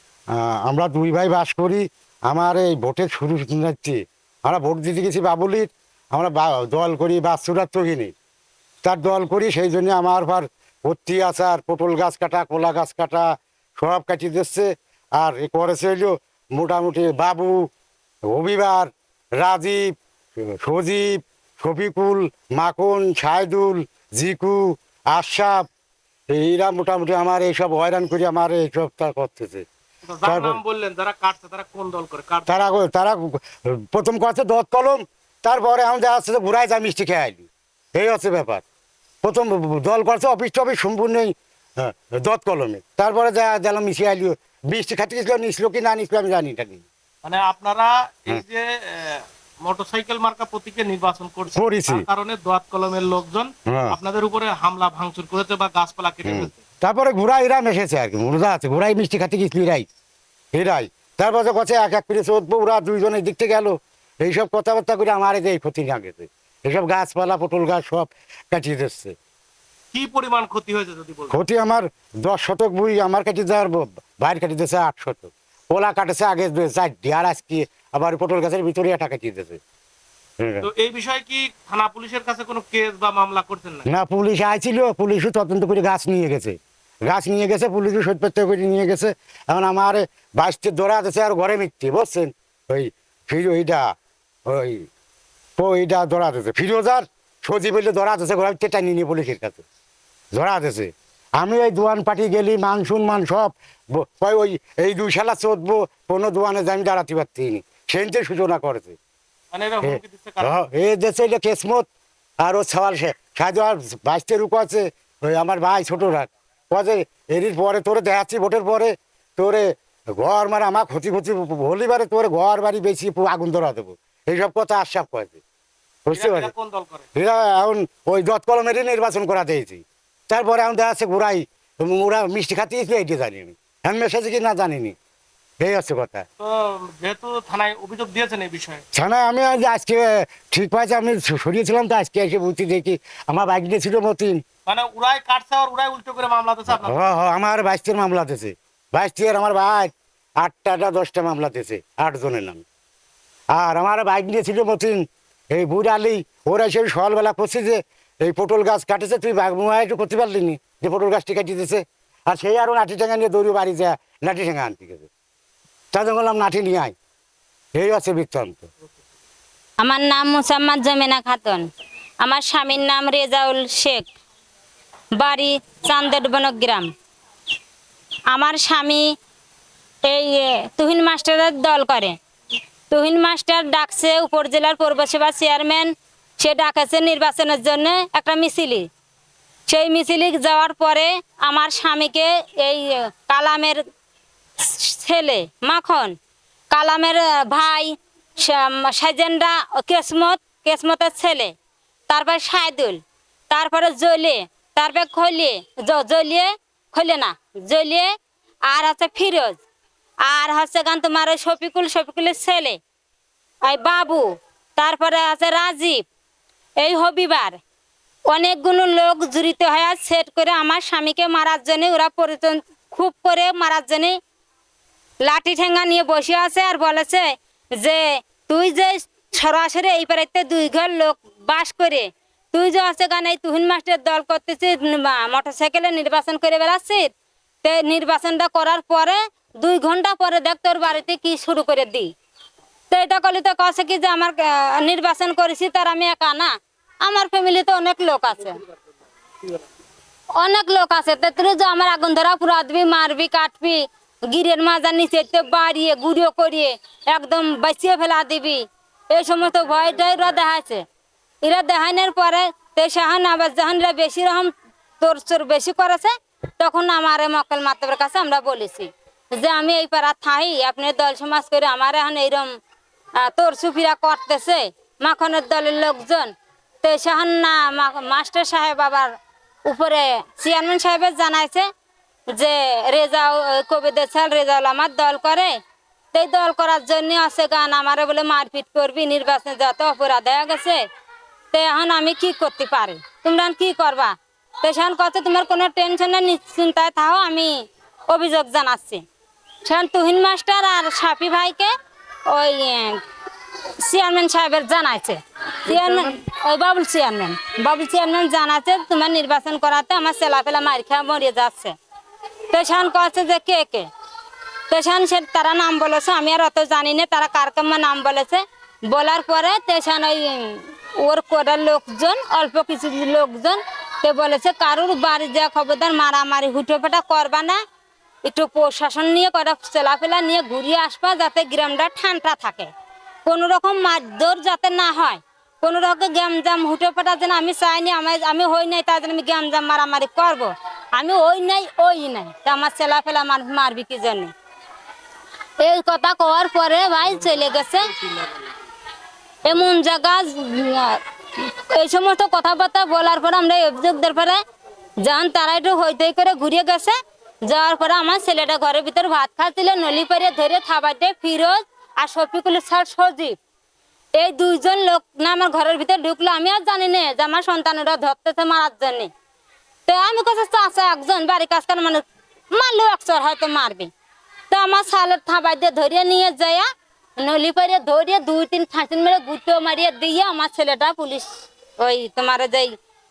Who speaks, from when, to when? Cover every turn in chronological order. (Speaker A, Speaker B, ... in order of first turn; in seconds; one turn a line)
Speaker A: 0.3-8.1
Speaker A: 8.8-17.7
Speaker A: 18.3-19.9
Speaker A: 20.5-25.7
Speaker A: 26.3-29.7
Speaker B: 30.1-32.6
Speaker A: 30.2-30.6
Speaker A: 32.5-38.6
Speaker A: 39.2-46.9
Speaker B: 47.2-56.6
Speaker A: 51.6-52.0
Speaker A: 53.7-54.0
Speaker A: 56.2-59.9
Speaker A: 60.5-69.1
Speaker B: 69.9-71.4
Speaker A: 71.3-79.6
Speaker A: 80.4-80.7
Speaker B: 80.6-83.9
Speaker A: 83.9-93.9
Speaker A: 94.5-94.9
Speaker A: 95.6-99.6
Speaker A: 100.3-109.0
Speaker B: 109.5-110.5
Speaker A: 109.8-111.9
Speaker A: 112.4-125.4
Speaker A: 126.0-126.5
Speaker B: 126.1-127.1
Speaker A: 127.2-135.0
Speaker A: 135.6-136.3
Speaker B: 136.4-138.8
Speaker A: 138.9-144.4
Speaker B: 144.7-147.0
Speaker A: 146.7-152.7
Speaker A: 153.6-165.1
Speaker A: 165.9-166.9
Speaker A: 167.8-168.7
Speaker C: 169.8-171.7
Speaker C: 172.2-174.1
Speaker C: 175.2-176.9
Speaker C: 178.3-179.1
Speaker C: 180.0-182.2
Speaker C: 182.9-188.9
Speaker C: 189.7-193.8
Speaker C: 194.6-196.2
Speaker C: 196.7-201.5
Speaker C: 202.1-203.0
Speaker C: 203.5-208.1
Speaker C: 208.7-209.6
Speaker C: 210.3-212.8
Speaker C: 213.6-214.3
Speaker C: 214.8-216.1
Speaker C: 216.8-217.6
Speaker C: 218.3-224.2
Speaker C: 225.2-237.1
Speaker C: 237.6-242.1
Speaker C: 242.9-248.6
Speaker C: 250.3-260.8
Speaker C: 261.4-272.5
Speaker C: 273.2-279.1
Speaker C: 279.7-281.7
Speaker C: 282.3-285.6
Speaker C: 286.1-290.8
Speaker C: 291.5-299.0
Speaker C: 299.6-301.7
Speaker C: 302.3-303.0
Speaker C: 303.8-311.8
Speaker B: 305.7-306.2
Speaker C: 312.5-313.9
Speaker C: 314.7-327.6
Speaker C: 328.2-332.7
Speaker C: 333.3-344.3
Speaker C: 345.6-347.9
Speaker B: 347.3-348.3
Speaker C: 349.4-354.4
Speaker C: 355.0-363.4
Speaker C: 364.2-369.1
Speaker C: 369.9-373.9
Speaker C: 374.5-376.7
Speaker C: 377.2-381.3
Speaker C: 381.8-382.8